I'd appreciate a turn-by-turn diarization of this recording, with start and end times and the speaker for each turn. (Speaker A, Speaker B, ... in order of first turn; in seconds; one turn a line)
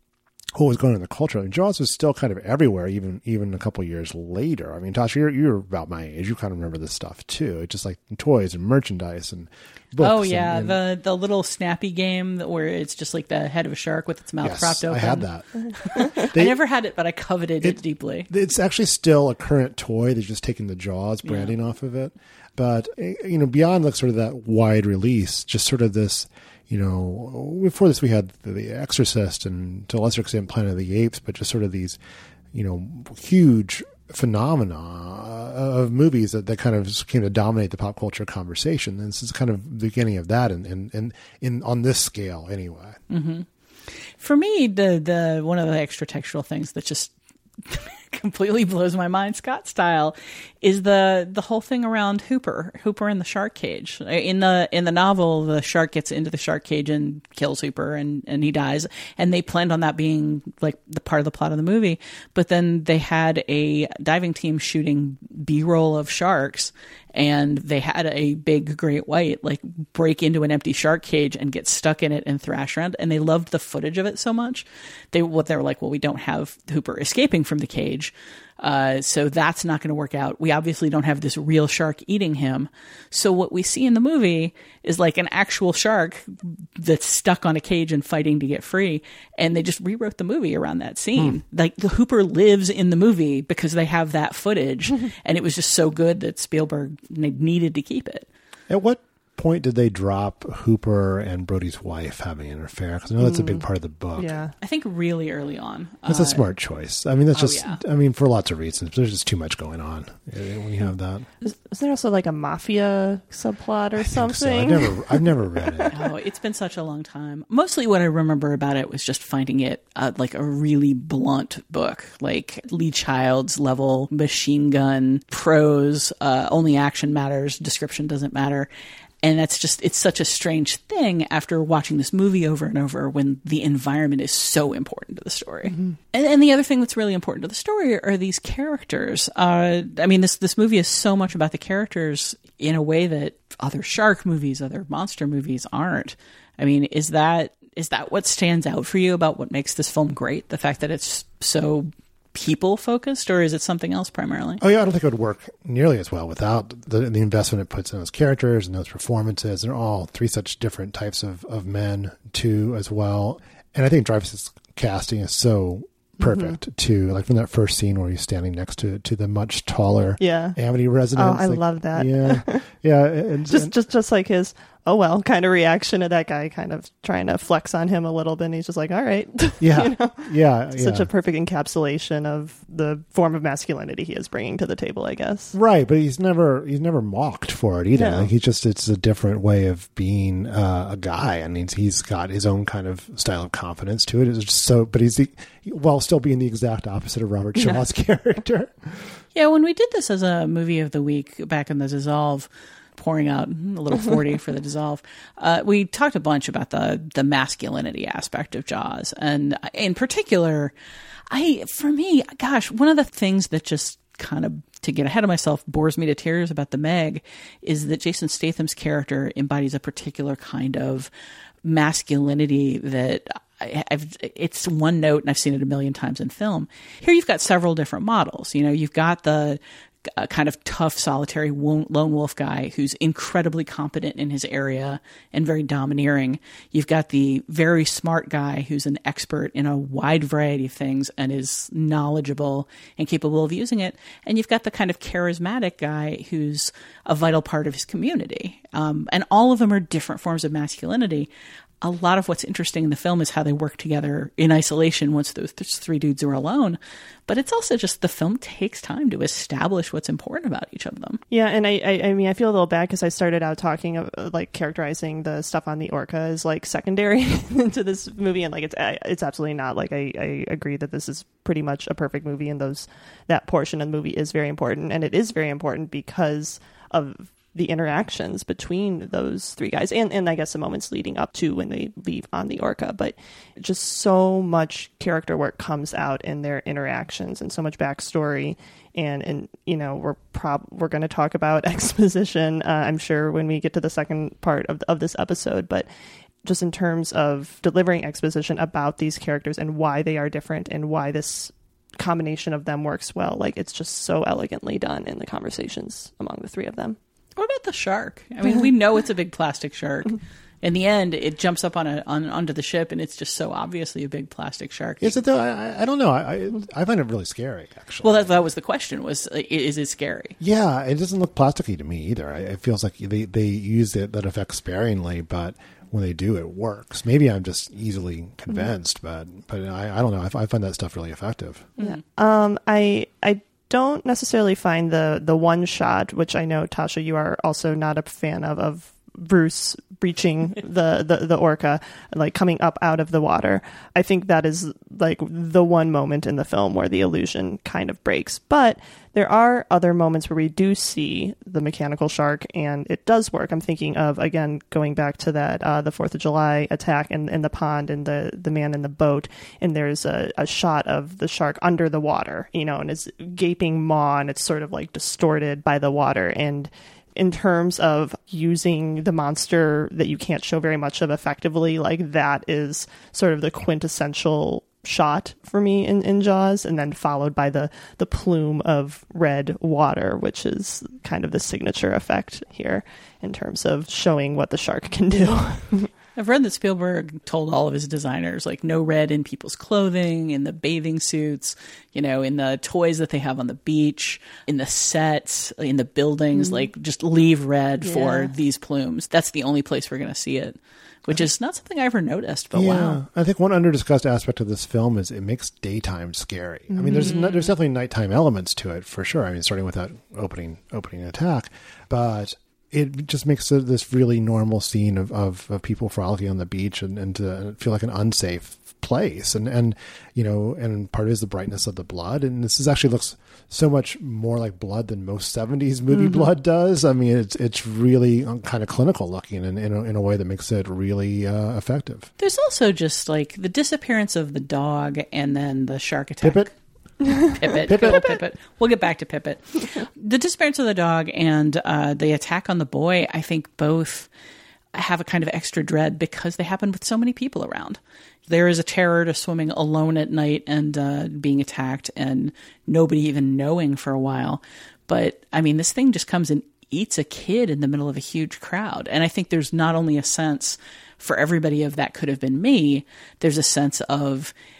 Speaker A: 0.5-10.8
Speaker B: 10.0-15.3
Speaker A: 14.4-16.6
Speaker B: 15.9-18.3
Speaker A: 17.6-32.0
Speaker B: 21.2-21.5
Speaker A: 32.5-43.0
Speaker B: 43.1-43.5
Speaker B: 44.2-47.1
Speaker B: 47.6-98.3
Speaker A: 98.7-104.3
Speaker C: 103.2-103.7
Speaker C: 104.2-104.5
Speaker B: 104.6-106.5
Speaker A: 106.1-111.3
Speaker B: 107.3-107.8
Speaker C: 111.4-115.9
Speaker A: 114.0-115.9
Speaker B: 115.9-128.7
Speaker B: 129.2-154.6
Speaker A: 154.6-173.7
Speaker C: 166.2-166.6
Speaker C: 170.2-170.6
Speaker C: 171.2-172.6
Speaker C: 173.5-185.5
Speaker A: 179.6-181.1
Speaker A: 185.5-199.1
Speaker C: 187.9-188.3
Speaker B: 199.3-210.7
Speaker B: 211.3-221.1
Speaker B: 221.6-251.3
Speaker B: 251.8-261.2
Speaker C: 261.3-295.9
Speaker C: 296.4-307.0
Speaker B: 307.4-315.2
Speaker A: 315.0-318.3
Speaker B: 318.0-320.4
Speaker A: 320.4-331.7
Speaker C: 331.8-385.9
Speaker B: 386.1-403.0
Speaker C: 396.3-396.7
Speaker C: 397.8-398.3
Speaker A: 402.5-432.1
Speaker C: 406.7-407.2
Speaker B: 407.0-407.5
Speaker B: 432.2-436.5
Speaker A: 436.2-436.5
Speaker C: 437.1-438.0
Speaker B: 437.3-444.1
Speaker A: 437.7-438.1
Speaker B: 444.7-464.3